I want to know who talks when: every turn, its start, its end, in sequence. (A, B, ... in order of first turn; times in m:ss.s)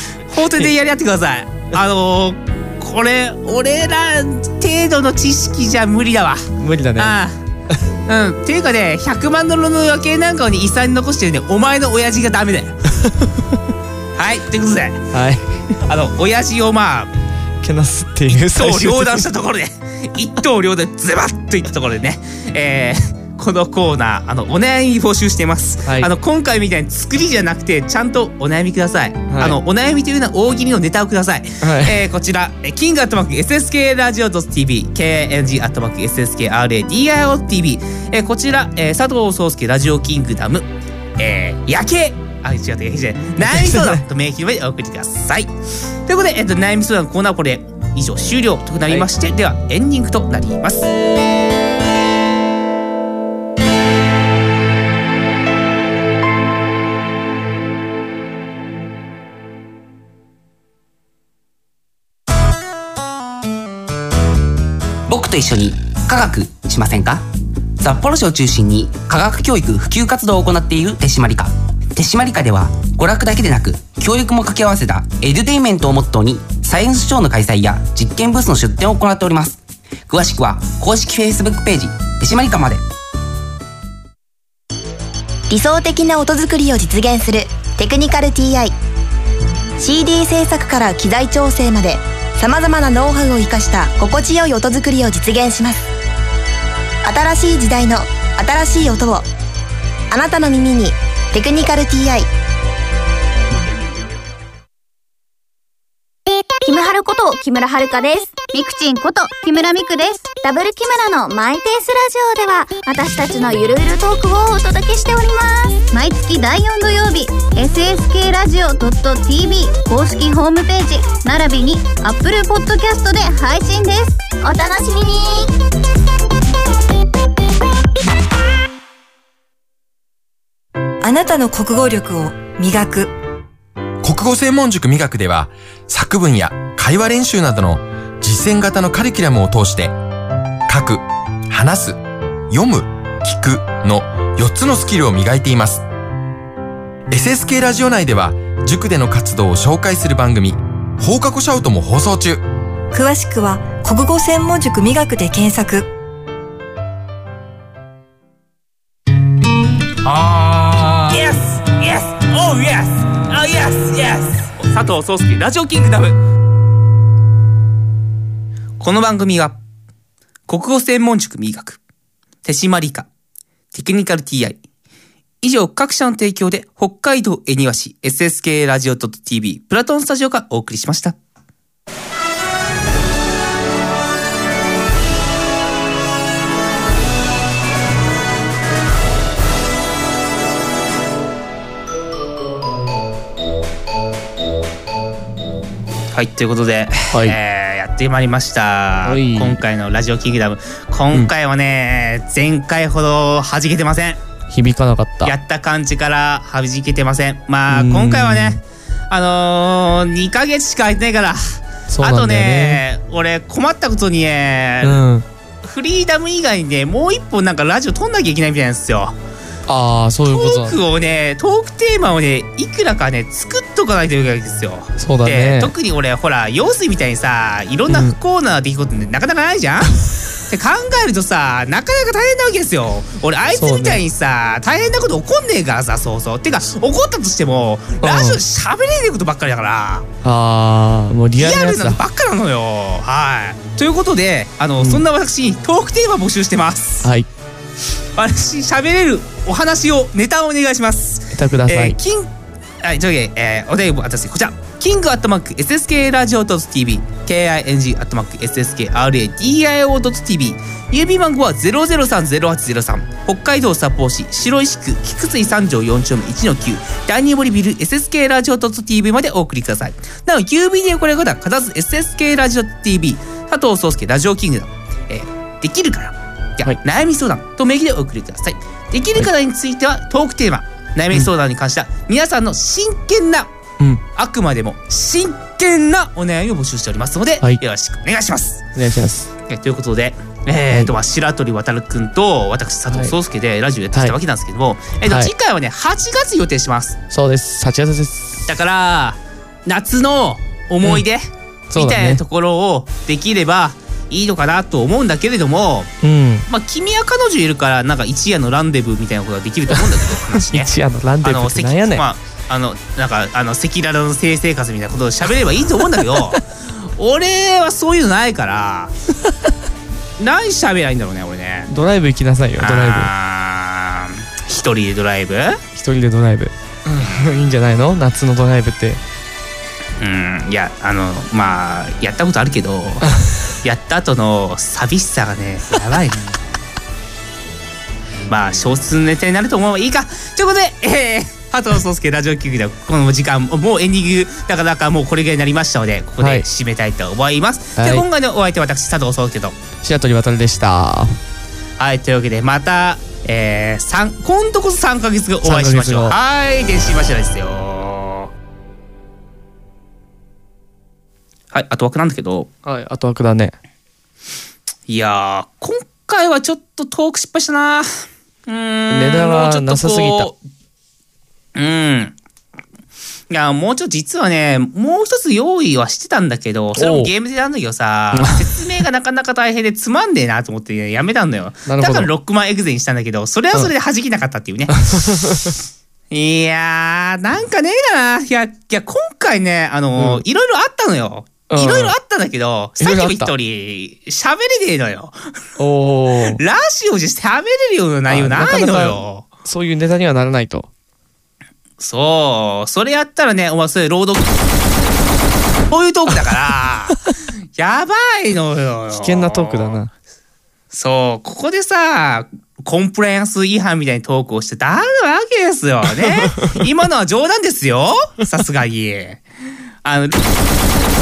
0:00.3-0:06.4 A
0:06.6-0:07.1 B
0:07.0-0:07.4 A
0:08.1-0:12.8 A
0:13.0-0:13.3 B
0:14.2-0:15.0 A
0:15.1-0:15.6 B
0:15.8-0:17.1 A
0:17.6-0:19.2 B
0:18.3-0:40.6 A
0:29.3-0:29.6 B
0:31.6-0:32.0 B
0:41.2-0:45.5 A
0:43.4-0:44.0 B
0:46.1-0:50.9 A
1:05.1-1:07.2 C
1:07.8-1:22.8 C
1:25.5-1:28.7 D
1:29.8-1:35.9 D
1:37.0-1:39.3 D
1:40.1-1:42.3 D
1:46.4-2:05.5 E
2:11.0-2:13.1 F
2:14.0-2:19.9 G
2:20.7-2:22.0 G
2:22.5-2:25.8 G
2:27.1-2:32.4 G
2:32.9-2:35.9 F
2:40.0-2:46.2 A
2:48.8-2:49.6 A
2:50.5-2:51.8 A
2:52.4-2:53.1 A
2:53.7-2:54.6 A
2:55.4-3:01.2 A
3:16.1-3:24.2 A
3:19.0-3:19.6 B
3:24.5-3:25.3 B
3:25.2-3:35.0 A
3:27.7-3:28.6 B
3:31.9-3:32.8 B
3:34.8-3:35.2 B
3:35.6-3:39.2 A
3:39.7-3:40.8 B
3:40.3-4:00.0 A
3:45.0-3:45.7 B
3:47.9-3:48.2 B
3:53.5-3:54.0 B
3:58.0-3:58.4 B
4:00.2-4:02.0 B
4:01.4-4:07.1 A
4:04.8-4:05.0 B
4:07.0-4:07.3 B
4:08.2-4:12.3 A
4:11.3-4:12.0 B
4:12.8-4:43.5 A
4:44.1-4:48.7 A
4:48.8-4:49.3 B
4:49.5-4:57.0 A
4:55.1-4:55.3 B
4:57.1-4:58.4 B
4:58.5-5:01.2 A
5:01.7-5:02.2 B
5:01.7-5:05.9 A
5:06.0-5:06.5 B
5:06.5-5:16.4 A
5:10.3-5:12.0 B
5:17.0-5:18.9 A
5:20.2-5:21.7 A
5:21.7-5:23.1 B
5:22.6-5:25.6 A
5:25.7-5:29.0 B
5:27.0-5:27.3 A
5:30.0-5:33.1 A
5:33.6-5:36.3 A
5:38.3-5:49.6 A
5:47.8-5:48.0 B
5:49.8-5:51.2 B
5:51.8-5:58.3 A
5:55.4-5:56.1 B
6:01.5-6:02.5 A
6:02.6-6:03.5 B
6:04.9-6:10.4 A
6:08.9-6:10.3 B
6:11.5-6:12.1 A
6:13.3-6:24.8 A
6:16.8-6:17.1 B
6:18.1-6:18.4 B
6:21.7-6:22.1 B
6:24.7-6:25.6 B
6:26.1-6:35.2 A
6:30.0-6:30.2 B
6:31.5-6:31.9 B
6:32.8-6:33.3 B
6:35.6-6:36.4 B
6:36.3-6:39.2 A
6:38.1-6:40.7 B
6:41.8-6:44.3 A
6:45.7-6:47.0 A
6:47.6-6:49.8 A
6:48.9-6:49.9 B
6:50.7-6:59.2 A
6:55.9-6:56.6 B
6:59.8-7:00.2 A